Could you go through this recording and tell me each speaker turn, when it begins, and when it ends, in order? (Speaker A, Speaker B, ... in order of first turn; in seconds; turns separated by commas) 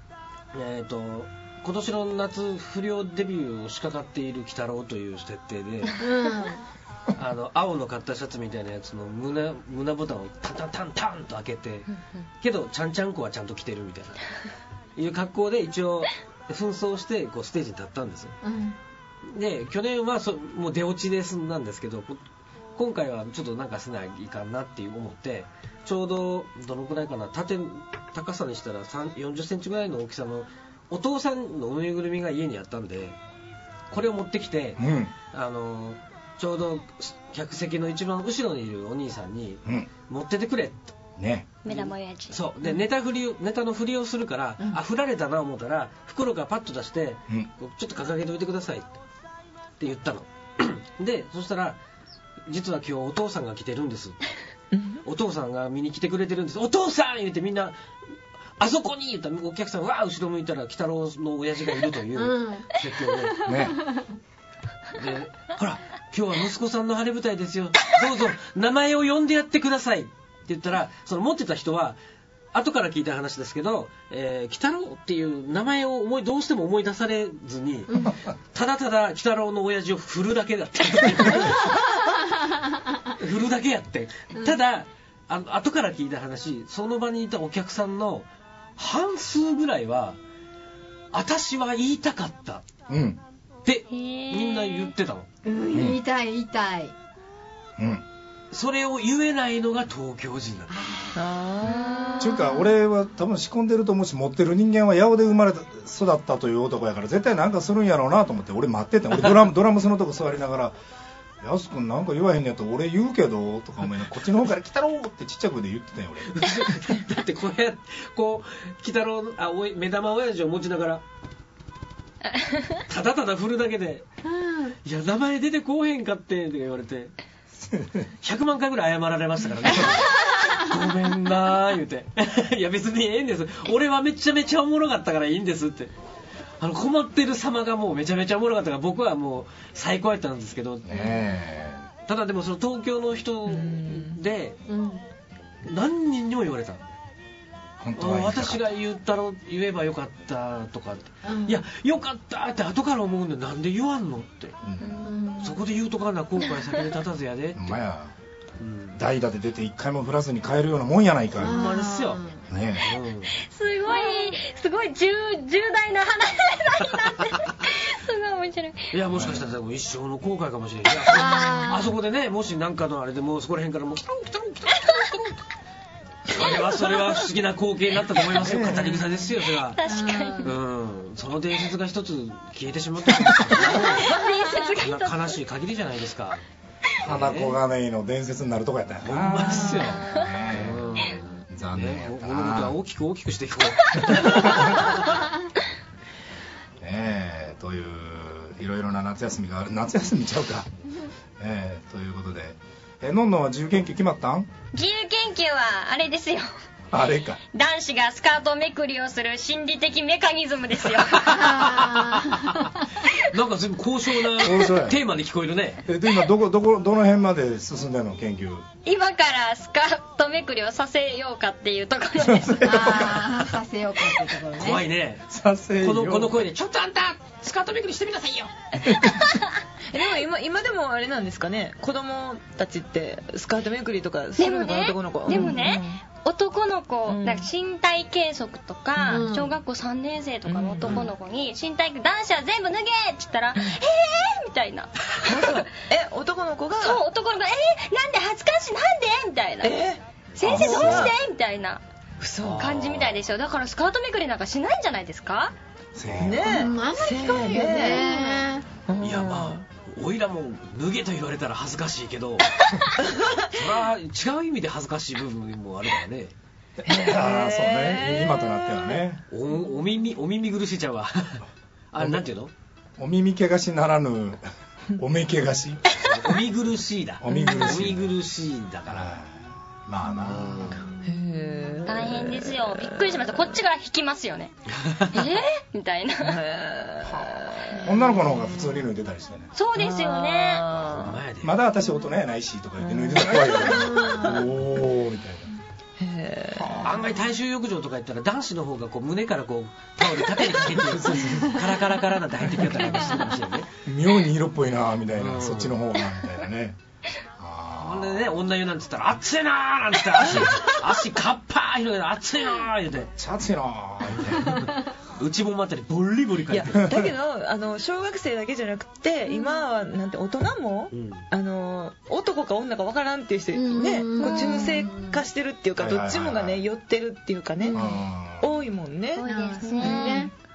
Speaker A: 0.5-6.0, Speaker B: 6.0-6.6, Speaker A: 7.2-11.9, Speaker A: 12.4-14.2, Speaker A: 14.9-18.4, Speaker B: 18.4-18.8, Speaker A: 19.3-22.2, Speaker A: 22.8-33.2, Speaker A: 33.9-41.0, Speaker C: 34.8-35.1, Speaker C: 39.6-39.9, Speaker C: 41.2-41.5, Speaker D: 41.6-42.4, Speaker A: 41.7-49.0, Speaker A: 49.8-51.8, Speaker A: 52.5-54.2, Speaker E: 54.7-55.0, Speaker A: 55.0-57.7, Speaker A: 58.6-63.5, Speaker B: 62.1-62.7, Speaker B: 63.3-64.0, Speaker C: 63.5-63.8, Speaker A: 64.9-72.0, Speaker A: 72.5-81.8, Speaker C: 81.0-81.5, Speaker A: 83.2-88.2, Speaker A: 88.8-90.2, Speaker A: 91.1-92.7, Speaker C: 92.9-93.2, Speaker A: 93.6-95.3, Speaker D: 93.9-94.9, Speaker B: 95.4-96.9, Speaker C: 95.7-96.0, Speaker C: 97.8-98.0, Speaker A: 98.5-101.0, Speaker B: 100.7-102.5, Speaker E: 101.1-102.5, Speaker C: 102.2-110.7, Speaker C: 111.4-116.7, Speaker A: 116.3-121.0, Speaker A: 122.9-124.0, Speaker B: 124.2-124.7, Speaker A: 124.8-127.1, Speaker C: 127.6-128.1, Speaker A: 128.2-135.9, Speaker A: 136.6-141.1, Speaker C: 140.8-141.9, Speaker A: 142.1-144.6, Speaker E: 143.5-144.2, Speaker B: 144.7-145.0, Speaker A: 145.7-146.8, Speaker C: 147.8-148.7, Speaker A: 148.0-154.6, Speaker B: 151.2-151.6, Speaker C: 154.6-155.0, Speaker D: 154.8-155.2, Speaker B: 155.0-155.6, Speaker A: 155.4-157.7, Speaker C: 157.5-158.1, Speaker A: 158.6-159.0, Speaker C: 158.9-161.8, Speaker B: 161.4-162.4, Speaker A: 161.4-162.2, Speaker C: 162.5-162.9, Speaker A: 162.8-163.3, Speaker D: 163.3-168.9, Speaker A: 168.9-175.4, Speaker C: 169.1-169.5, Speaker B: 171.1-172.0, Speaker A: 176.2-179.8, Speaker C: 178.3-179.0, Speaker D: 179.7-180.5, Speaker B: 179.8-180.5, Speaker A: 180.4-184.2, Speaker C: 183.2-183.5, Speaker D: 183.6-185.3, Speaker A: 184.8-186.4, Speaker C: 187.0-190.8, Speaker A: 187.0-187.6, Speaker A: 189.0-195.2, Speaker B: 189.6-190.3, Speaker C: 191.5-192.8, Speaker C: 194.0-194.9, Speaker C: 196.8-200.7, Speaker C: 201.4-204.5, Speaker D: 204.7-206.5, Speaker C: 206.9-207.4, Speaker D: 207.5-211.6, Speaker A: 211.1-215.9, Speaker B: 211.4-212.6, Speaker C: 214.4-215.0, Speaker C: 215.8-218.7, Speaker D: 218.8-222.8, Speaker C: 222.2-223.5, Speaker B: 222.6-224.8, Speaker A: 224.5-225.3, Speaker C: 225.3-226.5, Speaker A: 225.8-228.5, Speaker C: 228.8-229.2, Speaker D: 229.2-229.5, Speaker E: 229.9-236.0, Speaker D: 234.4-245.7, Speaker E: 237.1-237.5, Speaker E: 239.0-239.3, Speaker B: 239.1-239.6, Speaker E: 240.4-241.1, Speaker E: 245.2-247.0, Speaker D: 246.8-249.8, Speaker E: 249.6-251.1, Speaker D: 250.3-251.8, Speaker C: 250.4-251.1, Speaker A: 250.5-251.0, Speaker E: 252.2-252.7, Speaker A: 252.4-253.2, Speaker D: 252.6-255.5, Speaker C: 255.9-256.7, Speaker E: 256.1-258.2, Speaker B: 256.4-258.6, Speaker D: 257.6-258.4, Speaker E: 258.9-259.6, Speaker A: 259.0-262.7, Speaker E: 263.0-263.4, Speaker A: 263.4-266.3, Speaker C: 266.8-269.2, Speaker E: 266.9-269.0, Speaker A: 269.3-272.5, Speaker C: 273.0-275.8, Speaker A: 276.0-279.1, Speaker C: 277.2-278.2, Speaker E: 277.3-277.6, Speaker C: 278.9-280.8, Speaker A: 280.2-280.8, Speaker E: 281.0-283.2, Speaker D: 281.9-284.5, Speaker A: 284.8-285.2, Speaker D: 285.1-286.4, Speaker E: 286.2-287.9, Speaker C: 287.0-289.5, Speaker D: 289.5-290.7, Speaker E: 289.8-291.2, Speaker A: 290.8-291.5, Speaker C: 291.4-295.5, Speaker E: 292.8-294.1, Speaker B: 293.6-294.4, Speaker E: 296.0-296.8, Speaker C: 296.6-297.1, Speaker A: 296.8-303.7, Speaker C: 300.8-301.8, Speaker C: 302.4-303.2, Speaker C: 303.8-306.8, Speaker A: 305.2-305.8, Speaker C: 307.4-308.3, Speaker A: 307.8-313.1, Speaker C: 313.1-314.6, Speaker A: 314.2-317.0, Speaker E: 316.5-327.9, Speaker C: 316.8-317.1, Speaker A: 320.9-321.2, Speaker B: 323.5-325.2, Speaker D: 324.2-324.7, Speaker C: 325.8-326.6, Speaker B: 327.6-327.9, Speaker C: 327.7-328.5, Speaker E: 328.4-329.3, Speaker D: 329.1-330.3, Speaker B: 329.2-330.3, Speaker E: 329.8-330.3